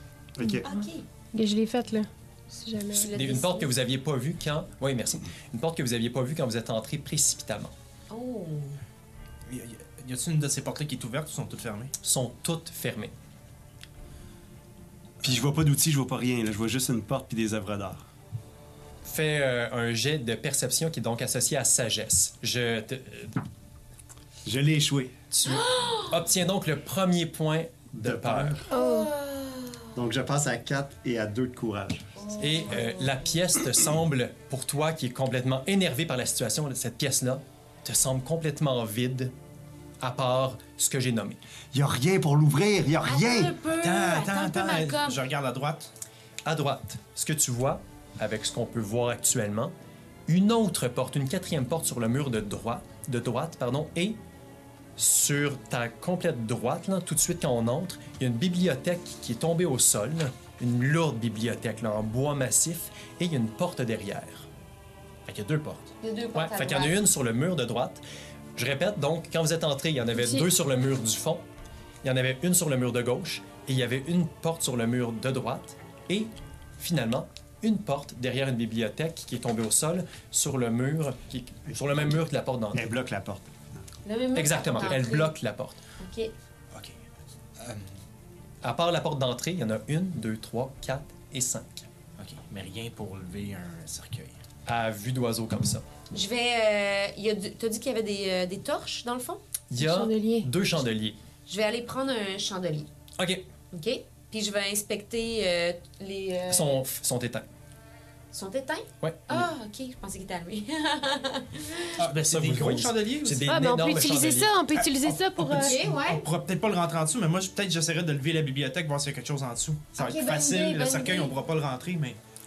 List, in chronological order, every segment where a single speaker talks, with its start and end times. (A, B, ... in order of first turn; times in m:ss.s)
0:00.4-0:00.6 A
0:00.4-0:03.3 B
0:00.6-0:01.0 C
0:03.0-0:07.7 D
0:03.0-0:03.7 C
0:08.1-0:08.8 C
0:09.5-0:11.9 E
0:12.0-0:13.1 D
0:15.2-0:18.0 A
0:19.0-0:23.4 D
0:24.4-0:25.2 A
0:25.3-0:28.7 D
0:25.5-0:26.2 C
0:27.9-0:28.6 A
0:28.7-0:29.9 C
0:28.7-0:29.1 B
0:30.0-0:32.1 A
0:32.2-0:33.2 C
0:32.4-0:39.3 D
0:40.0-0:41.4 D
0:41.7-0:43.6 A
0:43.0-0:45.2 C
0:43.8-0:45.9 E
0:46.4-0:49.7 D
0:50.3-0:54.2 D
0:55.0-1:04.5 D
1:05.3-1:05.9 E
1:06.0-1:07.0 C
1:06.3-1:08.0 D
1:08.6-1:11.4 D
1:12.0-1:22.9 D
1:22.7-1:23.5 A
1:24.0-1:25.3 C
1:24.4-1:25.8 D
1:26.0-1:26.3 C
1:27.6-1:27.9 E
1:28.6-1:31.8 D
1:32.2-1:34.4 E
1:34.7-1:35.8 D
1:36.1-1:39.4 C
1:39.7-1:41.2 D
1:39.8-1:40.5 B
1:41.5-1:42.9 C
1:43.2-1:43.4 D
1:43.7-1:46.8 C
1:46.5-1:47.5 D
1:48.3-1:52.0 C
1:49.0-1:49.5 D
1:52.0-1:53.5 E
1:52.2-1:54.6 D
1:53.5-1:55.8 B
1:54.8-2:02.2 E
1:55.6-1:56.2 C
2:00.0-2:01.3 C